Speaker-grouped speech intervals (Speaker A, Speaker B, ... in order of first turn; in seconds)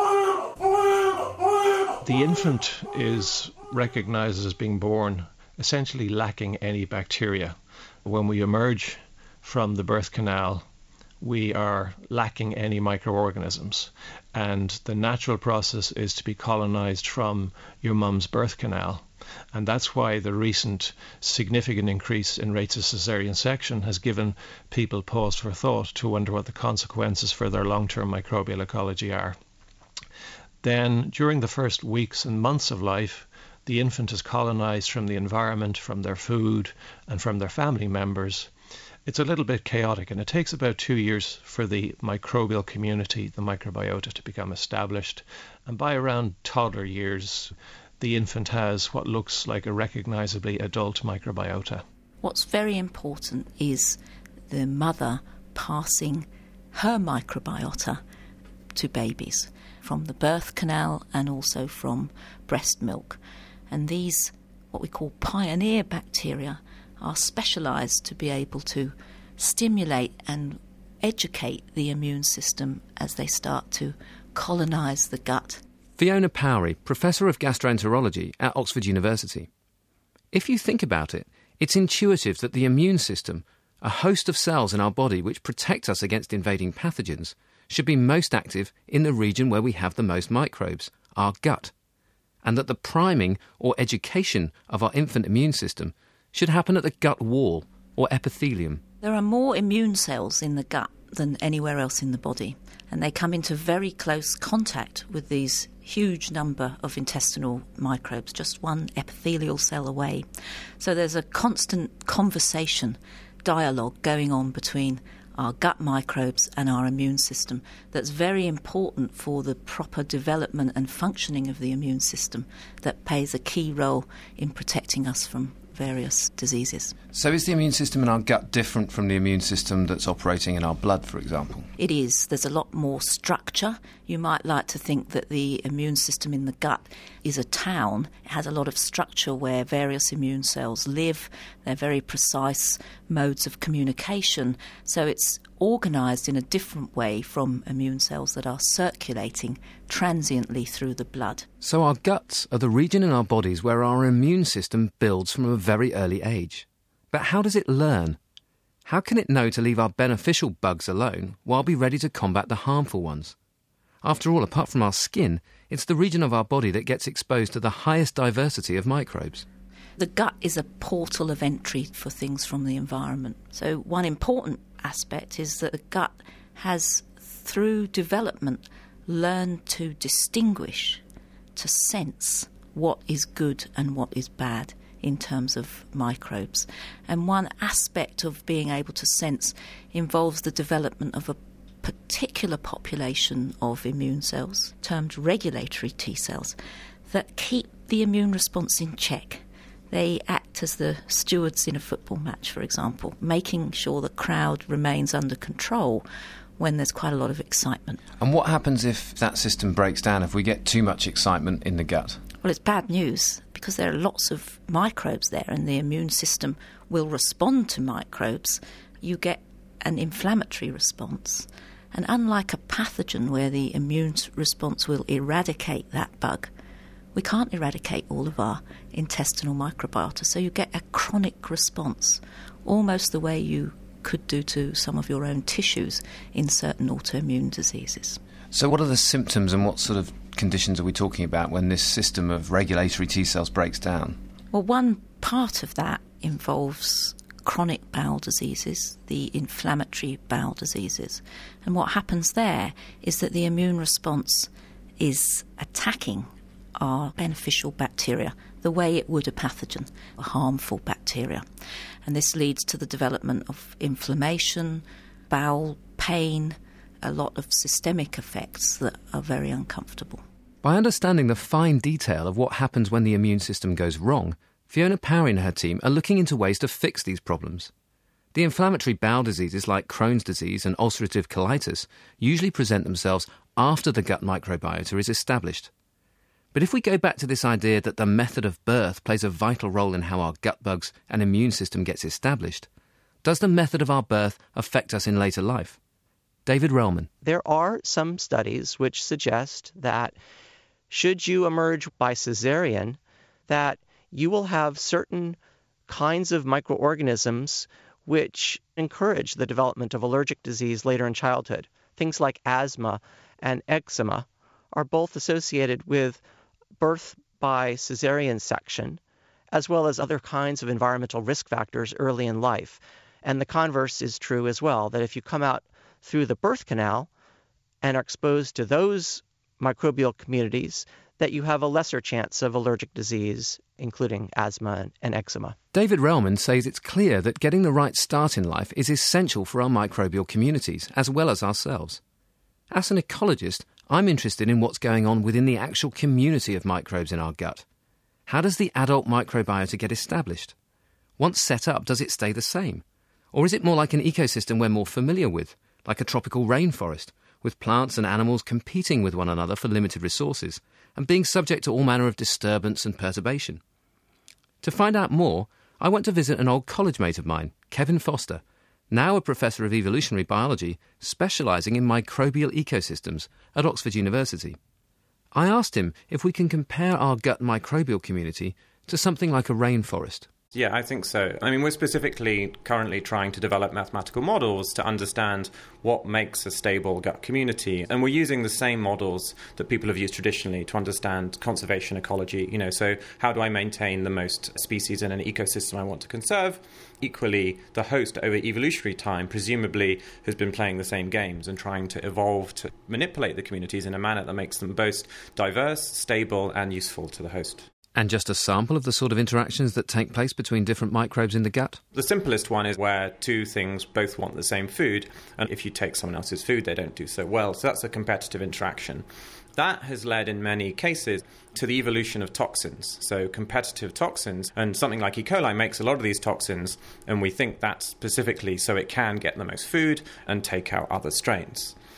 Speaker A: 2.0-10.7, 11.2-29.4, 30.6-38.5, 39.1-51.8
Speaker B: 52.2-58.0, 58.8-75.6, 99.0-110.2, 110.8-127.0, 131.8-151.5, 170.0-181.0, 181.6-196.6, 197.1-206.1, 206.6-208.0, 212.4-226.5, 227.2-238.2, 244.5-261.4, 262.1-270.2
Speaker C: 76.0-79.5, 80.3-91.7, 92.4-98.8, 127.1-131.7, 151.6-158.2, 158.8-163.3, 164.0-169.5, 208.2-212.2, 238.5-244.2, 270.6-277.7, 278.3-285.7, 286.5-292.7, 293.2-295.8, 296.5-297.1, 335.7-342.0, 342.7-347.6, 348.3-350.6, 351.2-363.6, 364.6-374.6, 375.3-380.3, 407.9-411.8
Speaker D: 297.2-300.2, 300.9-305.4, 305.9-316.2, 316.8-319.0, 319.5-327.1, 327.8-335.6
Speaker E: 380.5-407.7, 411.9-431.8